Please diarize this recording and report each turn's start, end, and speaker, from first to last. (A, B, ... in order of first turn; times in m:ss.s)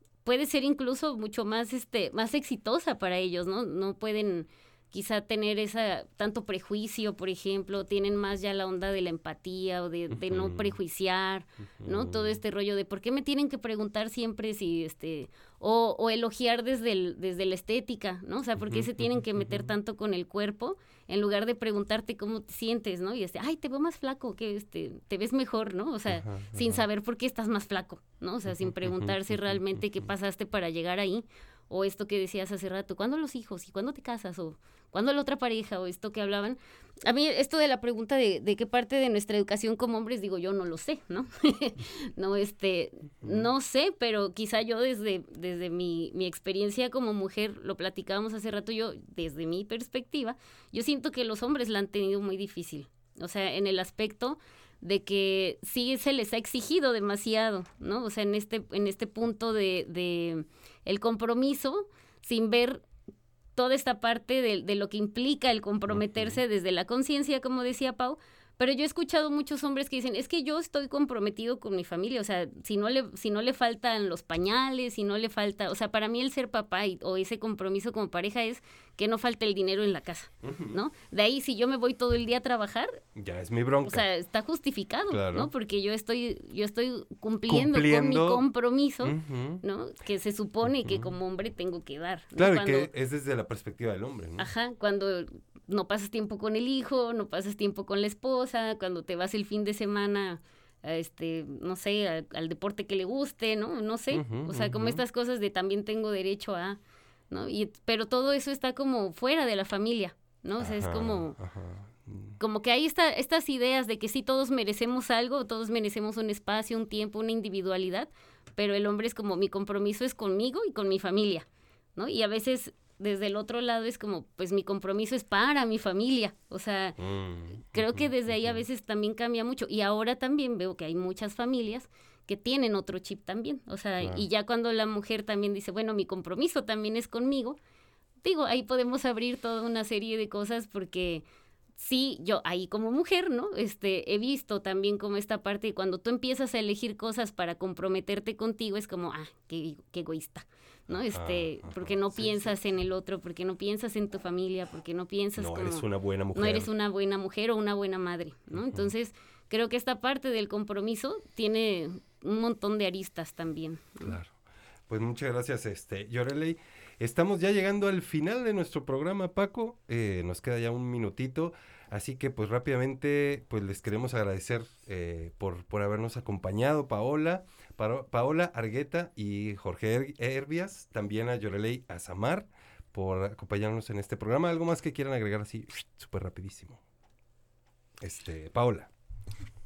0:00.2-1:02.8 A
0:10.1-0:10.8 B
0:11.8-0:12.4 B
0:18.6-0:19.8 B
0:26.1-0:26.9 B
0:28.5-0:30.1 B
0:43.2-0:43.5 B
1:03.6-1:23.0 A
1:05.9-1:06.4 B
1:20.4-1:20.8 B
1:23.2-1:24.1 B
1:23.8-1:32.9 A
1:25.1-1:25.5 B
1:27.5-1:28.4 B
1:29.0-1:29.6 B
1:30.6-1:31.2 B
1:32.4-1:34.5 B
1:34.4-1:51.4 A
1:44.1-1:45.0 B
1:50.6-1:52.4 B
1:52.4-2:07.0 A
2:07.0-2:08.7 B
2:07.7-2:17.6 A
2:14.0-2:14.3 B
2:18.2-2:21.2 A
2:21.8-2:44.2 A
2:30.9-2:32.6 B
2:35.4-2:36.7 B
2:38.5-2:38.9 B
2:44.0-2:44.3 B
2:44.9-3:06.8 B
3:08.0-3:08.9 B